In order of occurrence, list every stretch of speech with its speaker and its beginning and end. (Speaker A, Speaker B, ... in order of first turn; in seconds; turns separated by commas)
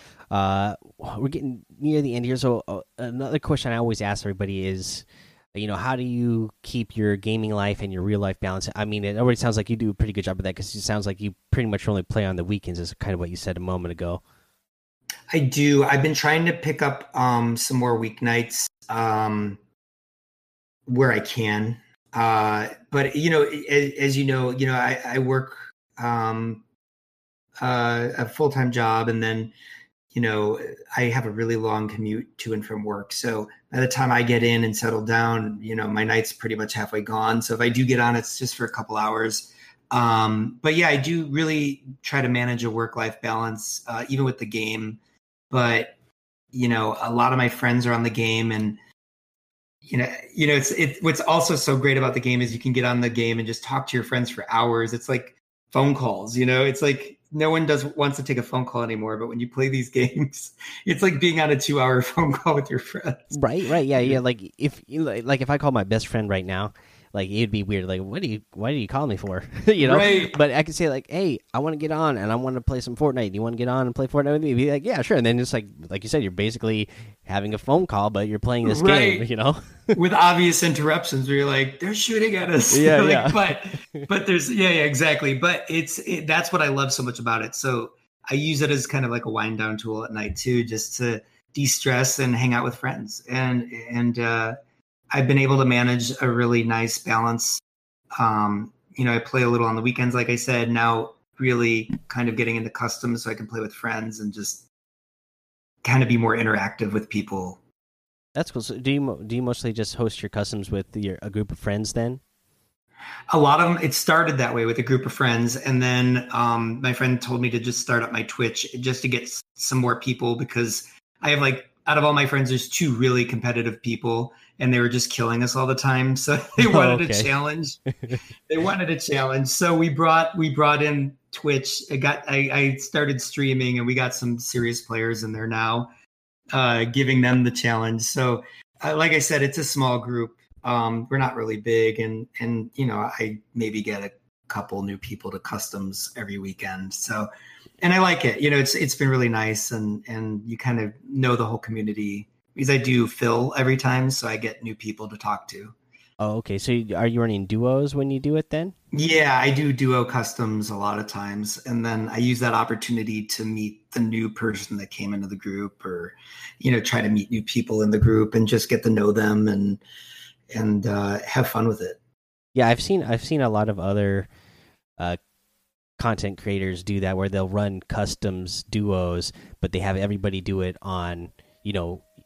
Speaker A: 0.3-14.2, Speaker B: 15.3-19.6, Speaker B: 20.9-26.6, Speaker B: 27.6-29.5, Speaker B: 30.1-45.0, Speaker B: 45.5-45.9, Speaker B: 46.5-48.8, Speaker B: 49.8-63.3, Speaker A: 63.3-80.0, Speaker B: 63.9-64.2, Speaker B: 69.8-70.4, Speaker B: 78.6-79.2, Speaker B: 79.9-94.5, Speaker A: 82.7-84.1, Speaker B: 95.1-97.6, Speaker B: 98.2-104.7, Speaker B: 105.8-107.6, Speaker A: 108.3-112.2, Speaker B: 113.3-127.8, Speaker A: 126.6-127.3, Speaker B: 128.5-135.9, Speaker B: 136.5-147.3, Speaker B: 147.8-155.8, Speaker A: 156.2-158.7, Speaker B: 158.9-169.8, Speaker B: 170.5-172.0, Speaker A: 172.5-174.3, Speaker A: 176.0-182.0